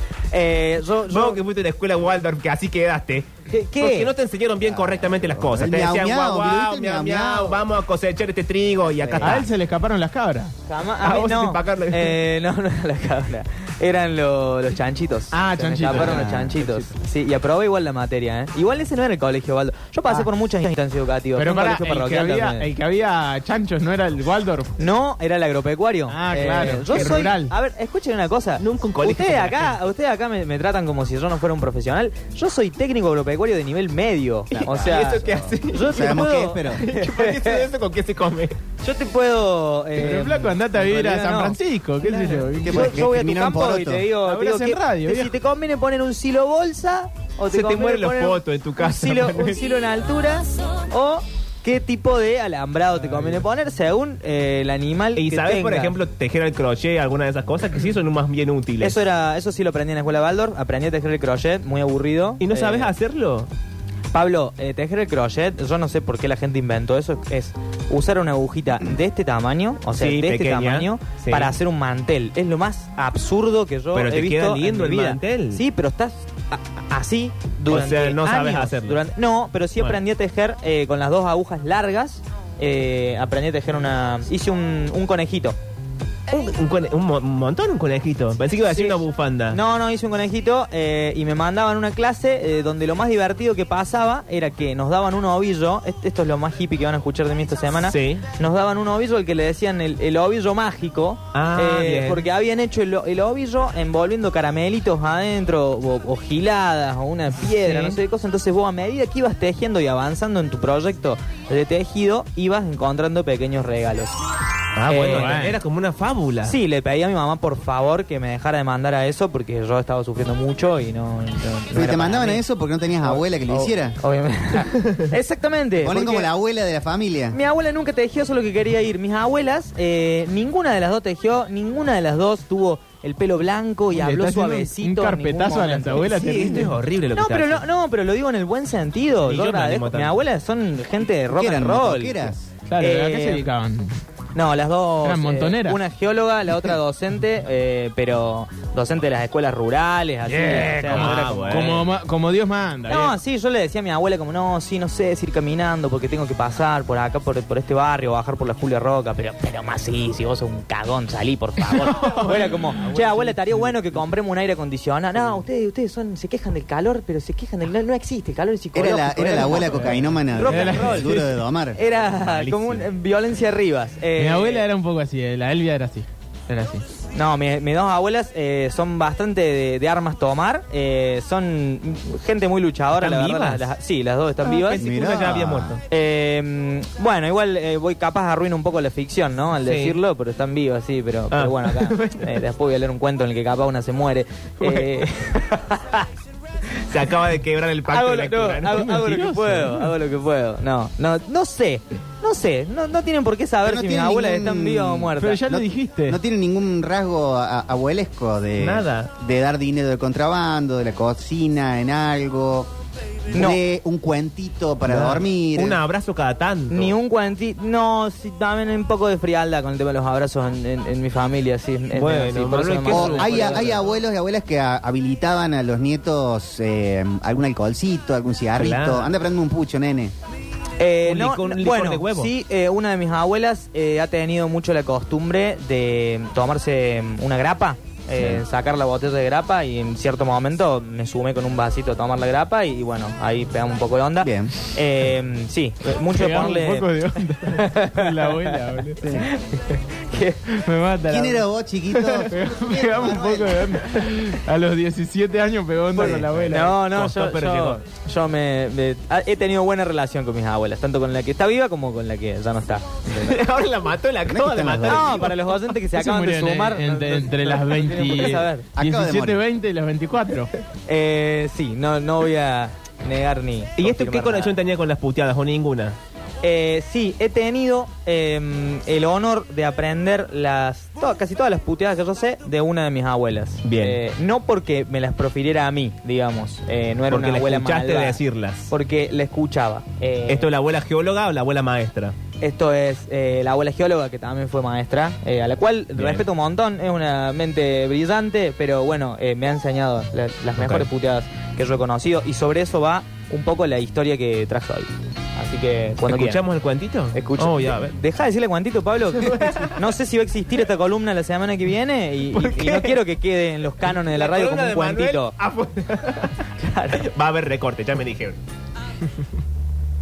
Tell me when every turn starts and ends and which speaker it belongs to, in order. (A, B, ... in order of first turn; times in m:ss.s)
0:00.3-0:01.4 A
0:01.1-0:09.5 B
0:03.5-0:04.1 A
0:04.7-0:07.6 C
0:09.0-0:09.5 C
0:09.2-0:10.5 D
0:10.7-0:22.7 A
0:11.0-0:12.2 B
0:15.3-0:16.9 D
0:15.9-0:16.6 C
0:21.4-0:24.8 D
0:24.8-0:37.7 A
0:26.1-0:27.5 D
0:26.9-0:27.2 B
0:28.6-0:29.8 B
0:34.5-0:36.8 C
0:34.6-0:38.6 B
0:38.8-0:41.6 A
0:40.0-0:43.1 D
0:42.1-0:44.1 C
0:42.2-0:56.0 A
0:44.2-0:45.4 D
0:47.5-0:49.6 B
0:55.2-0:59.0 B
0:58.8-1:02.9 A
1:02.4-1:03.5 B
1:04.1-1:25.6 A
1:09.9-1:11.5 B
1:13.9-1:15.6 B
1:17.7-1:19.0 B
1:26.3-1:29.6 B
1:28.7-1:54.2 A
1:37.9-1:38.2 B
1:41.3-1:42.3 B
1:54.8-1:56.6 B
1:54.9-1:55.4 A
1:55.1-1:55.6 D
1:56.4-2:02.4 A
2:01.7-2:04.0 C
2:03.5-2:06.3 A
2:05.8-2:07.4 C
2:07.3-2:16.1 A
2:13.9-2:16.8 D
2:16.0-2:17.6 B
2:17.1-2:23.5 A
2:19.2-2:20.2 B
2:21.3-2:22.5 C
2:22.7-2:24.0 D
2:24.3-2:31.9 A
2:25.0-2:25.8 D
2:30.3-2:33.0 D
2:30.9-2:31.9 B
2:32.9-2:33.2 B
2:32.9-2:51.2 A
2:42.0-2:43.8 B
2:48.7-2:51.8 C
2:50.0-2:51.3 D
2:51.8-2:54.7 A
2:52.0-2:52.9 B
2:54.2-2:56.8 D
2:57.1-3:04.9 A
3:03.0-3:03.7 B
3:04.4-3:05.8 B
3:04.8-3:05.8 C
3:05.9-3:16.1 A
3:09.6-3:10.0 B
3:11.3-3:12.4 B
3:14.6-3:15.1 B
3:16.9-3:18.8 B
3:17.9-3:25.4 A
3:18.6-3:19.9 D
3:23.6-3:32.7 C
3:25.2-3:26.2 D
3:28.6-3:29.1 B
3:33.3-3:35.8 C
3:33.3-3:33.6 A
3:34.8-3:37.0 B
3:36.7-3:43.8 A
3:41.9-3:43.8 B
3:42.9-3:50.1 C
3:48.6-3:49.1 B
3:50.8-4:10.4 A
3:51.0-3:52.3 B
3:58.2-3:58.4 C
4:04.2-4:04.5 C
4:06.1-4:09.1 D
4:09.0-4:09.3 C
4:10.5-4:16.8 D
4:11.1-4:13.8 C
4:16.0-4:23.4 A
4:16.0-4:16.4 C
4:16.0-4:17.8 B
4:23.1-4:25.6 B
4:24.3-4:25.3 C
4:24.9-4:28.7 A
4:25.9-4:30.5 D
4:28.8-4:29.4 C
4:30.9-4:34.6 A
4:33.8-4:36.0 B
4:36.4-4:50.5 A
4:43.6-4:44.0 B
4:47.1-4:48.7 B
4:50.3-4:52.2 B
4:52.4-5:06.4 A
4:56.0-4:56.2 B
5:00.6-5:00.9 B
5:06.0-5:08.0 B
5:07.1-5:15.3 A
5:09.2-5:09.7 B
5:12.3-5:13.0 B
5:13.8-5:16.4 B
5:16.6-5:17.1 A
5:17.0-5:18.4 B